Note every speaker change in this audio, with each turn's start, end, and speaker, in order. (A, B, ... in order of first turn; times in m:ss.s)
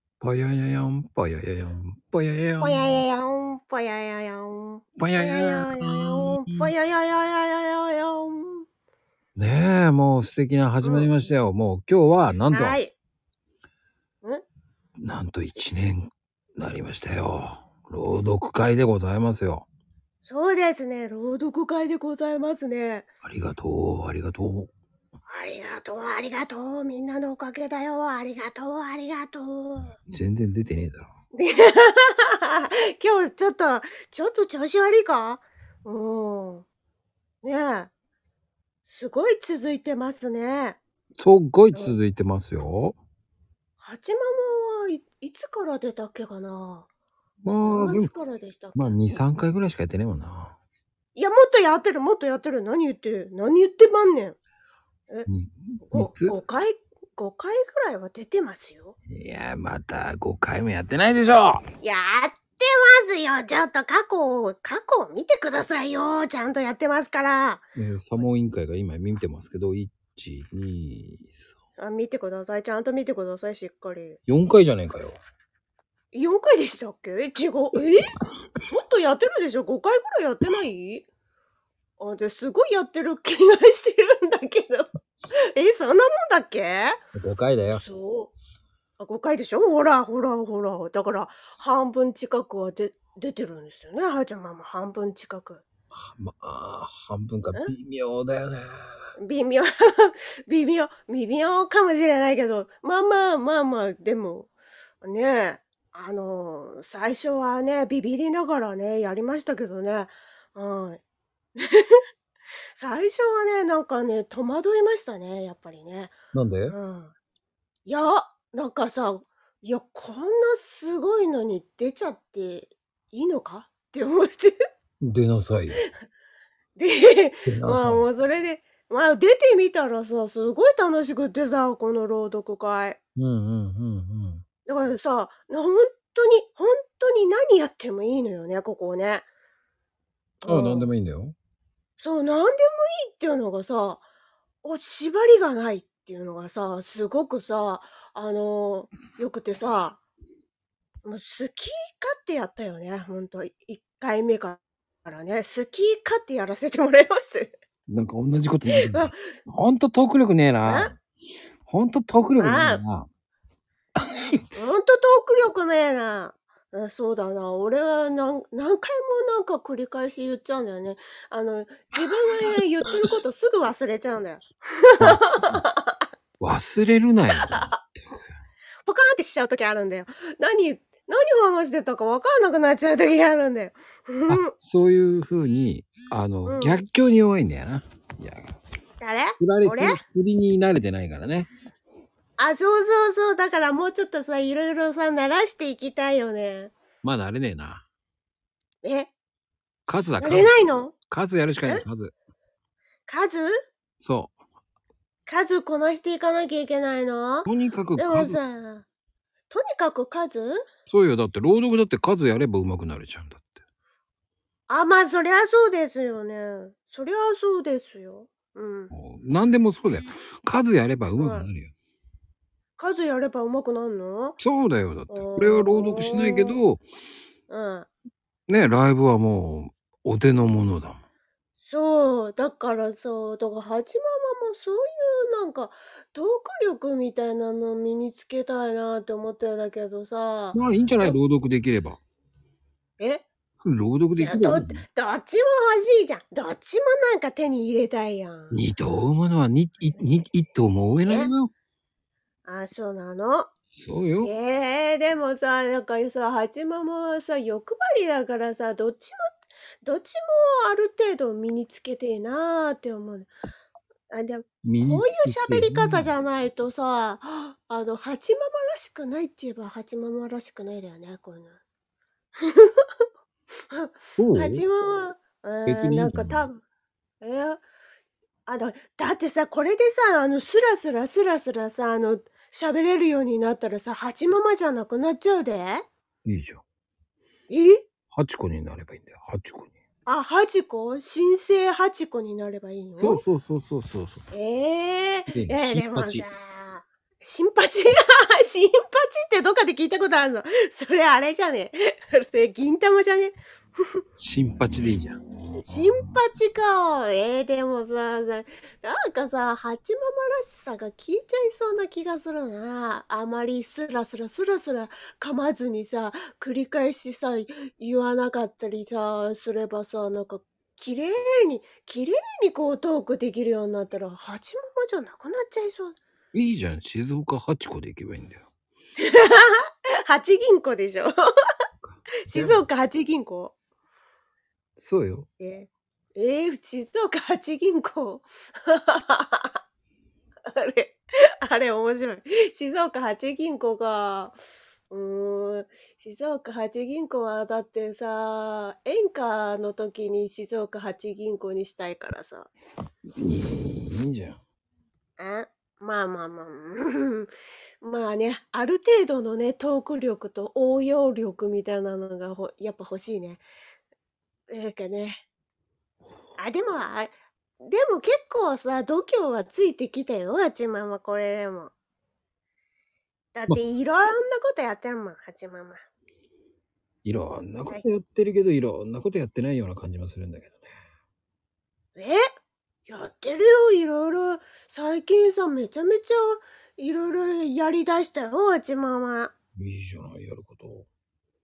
0:00.2-0:03.0 A
0:02.6-0:08.7 B
0:05.0-0:06.7 A
0:09.4-0:12.8 A
0:10.8-0:11.1 B
0:12.5-0:13.0 B
0:15.0-0:19.7 A
0:20.2-0:23.1 B
0:23.2-0:24.7 A
0:25.3-0:30.0 B
0:30.1-0:31.1 A
0:31.4-0:36.7 B
0:37.4-0:37.9 B
0:38.9-0:40.8 B
0:41.2-0:43.0 A
0:43.8-0:46.9 B
0:47.4-0:48.1 A
0:47.6-0:49.0 B
0:48.8-0:50.6 A
0:51.2-0:54.4 B
0:55.3-0:56.4 A
0:55.9-0:59.0 B
0:59.1-1:01.6 A
1:01.8-1:07.7 B
1:07.8-1:11.5 A
1:11.8-1:14.2 B
1:14.3-1:15.2 A
1:16.1-1:18.1 B
1:18.7-1:21.1 B
1:22.0-1:24.9 B
1:25.5-1:27.0 B
1:27.2-1:27.8 A
1:27.7-1:28.3 B
1:29.0-1:35.6 B
1:35.9-1:38.8 A
1:39.2-1:44.5 B
1:45.0-1:51.0 B
1:51.6-1:52.0 B
1:52.8-1:56.1 B
1:56.3-1:56.8 A
1:56.7-1:57.1 B
1:57.9-2:04.6 B
2:05.0-2:05.8 A
2:06.8-2:13.0 B
2:07.5-2:08.1 A
2:13.2-2:14.4 A
2:14.7-2:19.3 B
2:20.4-2:20.9 B
2:20.5-2:21.4 A
2:22.0-2:24.0 B
2:24.6-2:30.0 B
2:31.0-2:37.5 B
2:37.9-2:40.9 A
2:38.8-2:39.2 B
2:40.6-2:40.9 B
2:41.7-2:43.1 A
2:42.4-2:42.8 B
2:44.5-2:56.0 B
2:55.0-2:55.6 A
2:56.4-2:58.2 A
2:57.4-2:57.8 B
2:58.9-3:04.5 B
3:04.3-3:08.4 A
3:06.5-3:06.8 B
3:09.0-3:10.0 B
3:09.4-3:11.5 A
3:12.4-3:16.7 B
3:17.0-3:17.8 A
3:18.8-3:19.1 B
3:19.9-3:20.5 A
3:20.2-3:20.9 B
3:21.1-3:22.1 A
3:23.1-3:23.6 B
3:24.0-3:24.3 A
3:25.3-3:28.9 B
3:27.5-3:28.4 A
3:29.5-3:30.6 B
3:30.9-3:33.5 A
3:34.7-3:38.9 B
3:38.9-3:41.7 A
3:41.2-3:41.5 B
3:42.8-3:44.4 B
3:44.4-3:46.8 A
3:45.1-3:46.6 B
3:47.5-3:47.9 B
3:48.5-3:51.0 A
3:51.6-4:01.2 B
4:00.5-4:02.0 A
4:03.0-4:03.2 B
4:03.6-4:04.8 A
4:04.2-4:08.6 B
4:08.5-4:11.5 A
4:11.0-4:11.3 B
4:12.4-4:13.5 B
4:13.7-4:14.3 A
4:14.2-4:19.2 B
4:19.8-4:23.3 B
4:24.1-4:31.6 B
4:24.6-4:26.1 A
4:32.4-4:32.9 B
4:33.7-4:36.6 B
4:34.2-4:34.6 A
4:35.7-4:36.5 A
4:37.2-4:37.6 B
4:38.5-4:45.9 B
4:46.2-4:46.6 A
4:47.5-4:47.8 B
4:48.1-4:49.7 A
4:50.1-4:53.2 B
4:53.0-4:54.3 A
4:54.3-5:04.0 B
4:55.3-4:56.3 A
5:04.2-5:05.2 A
5:05.6-5:26.0 B
5:26.3-5:28.4 A
5:29.0-5:31.2 B
5:31.8-5:32.6 A
5:32.3-5:33.6 B
5:34.8-5:35.3 A
5:35.4-5:39.6 B
5:40.5-5:44.4 B
5:44.9-5:52.5 B
5:53.2-5:54.4 A
5:55.2-6:03.4 B
6:04.5-6:05.2 B
6:06.4-6:11.7 B
6:13.4-6:15.8 B
6:17.0-6:20.7 A
6:22.0-6:22.2 B
6:22.9-6:29.3 B
6:29.6-6:30.9 A